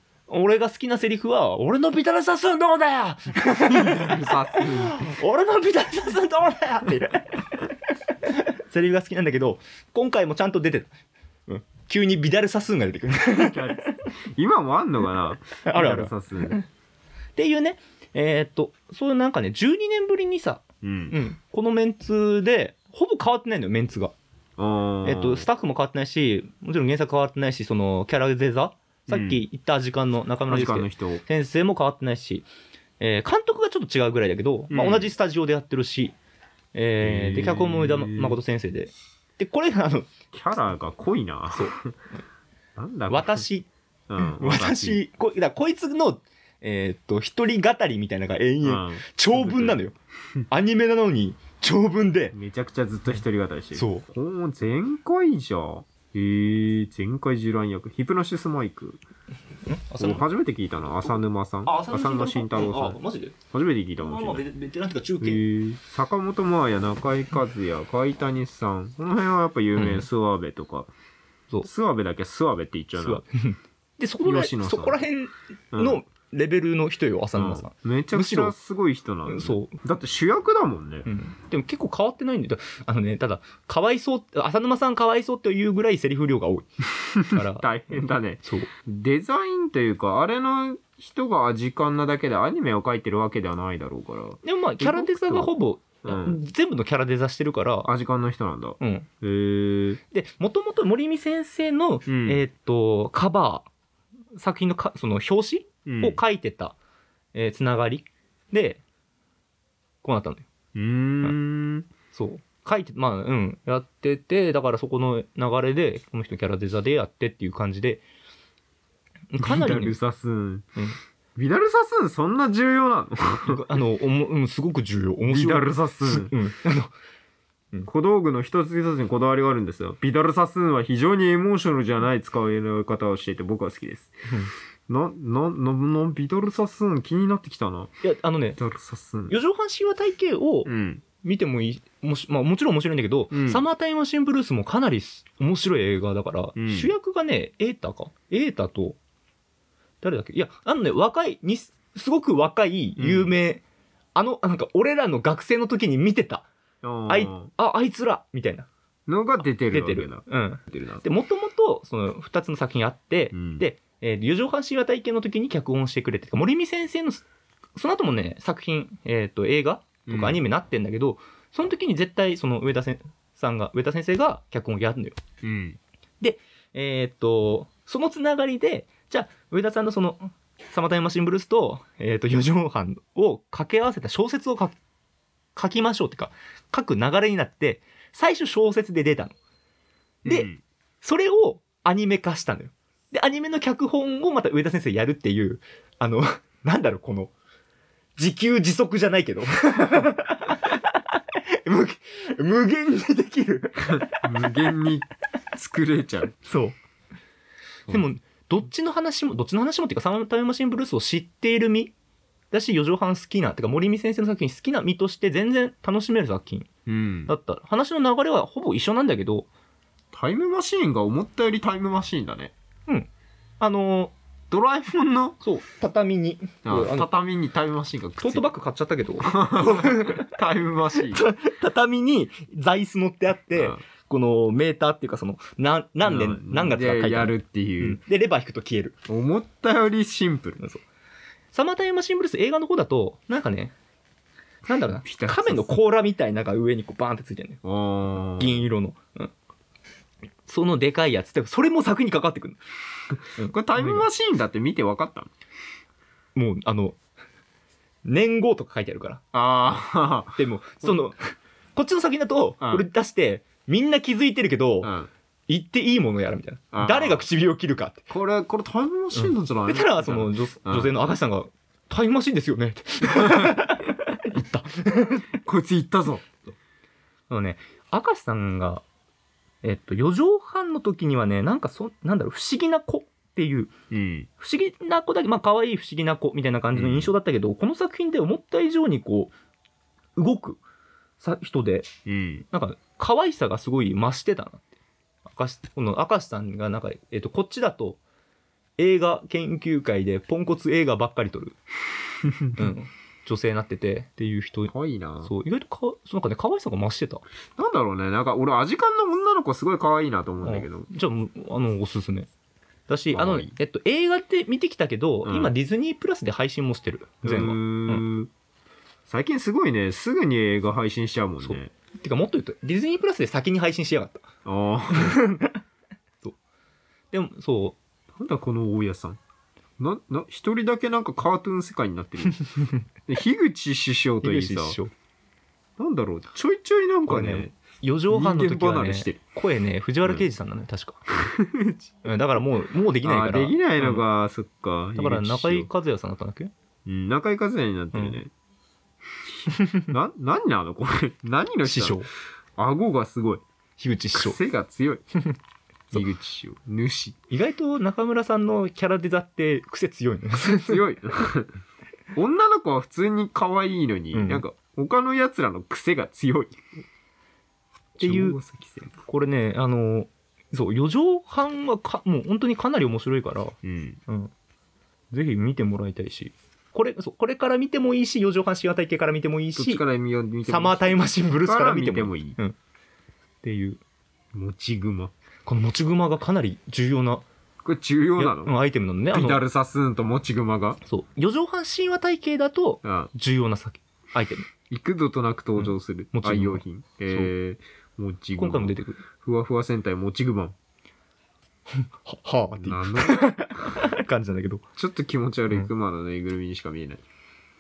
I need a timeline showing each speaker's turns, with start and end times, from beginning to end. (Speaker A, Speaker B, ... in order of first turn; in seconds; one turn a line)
Speaker A: 0.3-10.9
Speaker B: 3.6-5.0
Speaker A: 11.5-13.9
Speaker B: 13.3-16.6
Speaker A: 15.7-16.7
Speaker A: 17.4-24.1
Speaker B: 20.8-21.2
Speaker B: 24.6-25.5
Speaker A: 25.0-32.5
Speaker B: 29.1-29.4
Speaker B: 30.5-31.2
Speaker A: 33.0-36.2
Speaker B: 34.7-35.1
Speaker A: 36.7-40.1
Speaker B: 37.0-38.4
Speaker B: 40.3-41.9
Speaker B: 42.8-43.5
Speaker A: 43.1-43.7
Speaker B: 44.1-45.0
Speaker A: 44.2-49.9
Speaker B: 48.6-49.8
Speaker A: 50.5-52.4
Speaker B: 52.3-59.0
Speaker A: 53.7-54.1
Speaker A: 59.7-60.2
Speaker B: 60.0-63.0
Speaker A: 61.7-63.4
Speaker B: 63.5-64.5
Speaker A: 64.0-65.4
Speaker B: 65.2-70.9
Speaker A: 69.8-70.1
Speaker B: 71.6-73.2
Speaker A: 73.0-78.5
Speaker B: 74.2-75.0
Speaker B: 75.7-76.0
Speaker B: 77.4-81.1
Speaker A: 79.3-79.8
Speaker A: 81.1-86.7
Speaker A: 87.2-88.7
Speaker B: 87.2-95.5
Speaker A: 94.4-97.9
Speaker B: 96.0-96.4
Speaker B: 97.9-100.0
Speaker A: 98.8-99.1
Speaker A: 100.1-103.7
Speaker B: 102.1-102.4
Speaker A: 104.3-106.8
Speaker B: 105.9-106.2
Speaker A: 107.3-108.8
Speaker A: 110.0-110.5
Speaker B: 110.8-111.9
Speaker A: 112.1-118.0
Speaker A: 119.3-120.0
Speaker B: 119.4-120.7
Speaker B: 121.4-123.6
Speaker A: 123.4-126.9
Speaker B: 125.3-126.3
Speaker B: 127.9-134.1
Speaker B: 134.9-137.9
Speaker A: 138.0-138.6
Speaker B: 138.6-139.4
Speaker A: 139.3-149.0
Speaker B: 140.7-141.0
Speaker B: 143.3-143.6
Speaker B: 146.6-146.9
Speaker A: 150.0-153.6
Speaker B: 153.0-153.3
Speaker A: 154.2-156.5
Speaker B: 156.8-157.5
Speaker A: 157.1-158.7
Speaker B: 159.1-161.1
Speaker A: 159.7-167.2
Speaker B: 163.3-163.7
Speaker A: 167.8-175.2
Speaker B: 170.1-170.4
Speaker B: 175.4-175.8
Speaker A: 176.2-184.8
Speaker A: 185.6-189.3
Speaker B: 190.2-190.6
Speaker A: 191.0-197.3
Speaker A: 198.2-204.6
Speaker B: 203.9-206.3
Speaker A: 206.4-206.8
Speaker A: 207.9-211.9
Speaker A: 212.5-216.7
Speaker B: 216.9-217.3
Speaker A: 217.3-219.5
Speaker B: 220.1-222.5
Speaker A: 223.6-224.1
Speaker B: 224.5-225.4
Speaker A: 225.4-227.1
Speaker B: 226.7-228.5
Speaker A: 228.2-230.3
Speaker B: 229.2-231.3
Speaker A: 231.0-239.0
Speaker B: 233.6-233.8
Speaker B: 236.0-238.0
Speaker B: 239.1-240.6
Speaker A: 241.5-243.7
Speaker A: 244.7-247.6
Speaker B: 245.0-245.8
Speaker B: 247.6-248.7
Speaker A: 248.4-249.3
Speaker A: 250.4-252.6
Speaker A: 253.3-254.1
Speaker B: 253.4-255.3
Speaker A: 256.4-257.0
Speaker A: 258.1-259.2
Speaker B: 259.3-261.0
Speaker A: 260.4-264.9
Speaker B: 262.6-262.9
Speaker B: 264.8-265.1
Speaker A: 265.5-268.1
Speaker B: 266.7-267.3
Speaker B: 268.1-270.9
Speaker A: 269.2-275.4
Speaker B: 275.4-276.2
Speaker A: 277.3-278.8
Speaker A: 279.6-283.7
Speaker B: 283.9-284.3
Speaker A: 284.4-289.3
Speaker B: 286.7-287.1
Speaker A: 290.2-290.6
Speaker A: 291.2-291.9
Speaker B: 292.1-292.5
Speaker A: 292.5-294.7
Speaker A: 295.3-298.0
Speaker A: 298.8-301.6
Speaker B: 302.2-302.7
Speaker A: 302.6-307.2
Speaker B: 304.7-305.3
Speaker B: 307.6-310.9
Speaker A: 310.4-312.3
Speaker A: 312.9-318.1
Speaker B: 313.1-313.5
Speaker B: 315.2-315.5
Speaker B: 317.2-318.3
Speaker B: 319.1-321.7
Speaker A: 321.4-324.3
Speaker B: 324.4-325.2
Speaker A: 325.0-325.6
Speaker A: 327.1-327.8
Speaker B: 328.1-329.2
Speaker B: 329.8-332.4
Speaker B: 333.1-334.8
Speaker A: 334.2-334.9
Speaker B: 335.8-337.6
Speaker A: 337.1-341.1
Speaker B: 338.1-339.2
Speaker B: 341.2-341.9
Speaker A: 342.0-344.0
Speaker B: 343.0-345.7
Speaker A: 345.0-346.5
Speaker B: 346.9-348.3
Speaker A: 347.9-348.2
Speaker A: 349.5-349.8
Speaker B: 349.9-352.1
Speaker A: 351.6-352.1
Speaker B: 352.6-353.4
Speaker A: 353.8-354.4
Speaker B: 354.1-355.0
Speaker B: 355.9-357.2
Speaker A: 357.3-360.9
Speaker B: 360.7-361.5
Speaker B: 362.1-366.8
Speaker A: 364.1-364.4
Speaker B: 368.0-369.0
Speaker A: 368.0-368.4
Speaker A: 369.1-373.6
Speaker B: 373.6-374.0
Speaker A: 375.1-379.8
Speaker B: 379.6-382.4
Speaker A: 380.5-382.6
Speaker A: 383.4-383.8
Speaker B: 384.3-385.1
Speaker A: 385.5-387.2
Speaker B: 387.6-388.6
Speaker A: 388.2-389.4
Speaker B: 389.1-390.8
Speaker A: 390.9-394.5
Speaker B: 392.8-393.1
Speaker B: 394.7-400.6
Speaker A: 395.6-397.3
Speaker A: 398.4-399.0
Speaker A: 401.8-404.6
Speaker B: 402.6-403.9
Speaker B: 404.8-407.0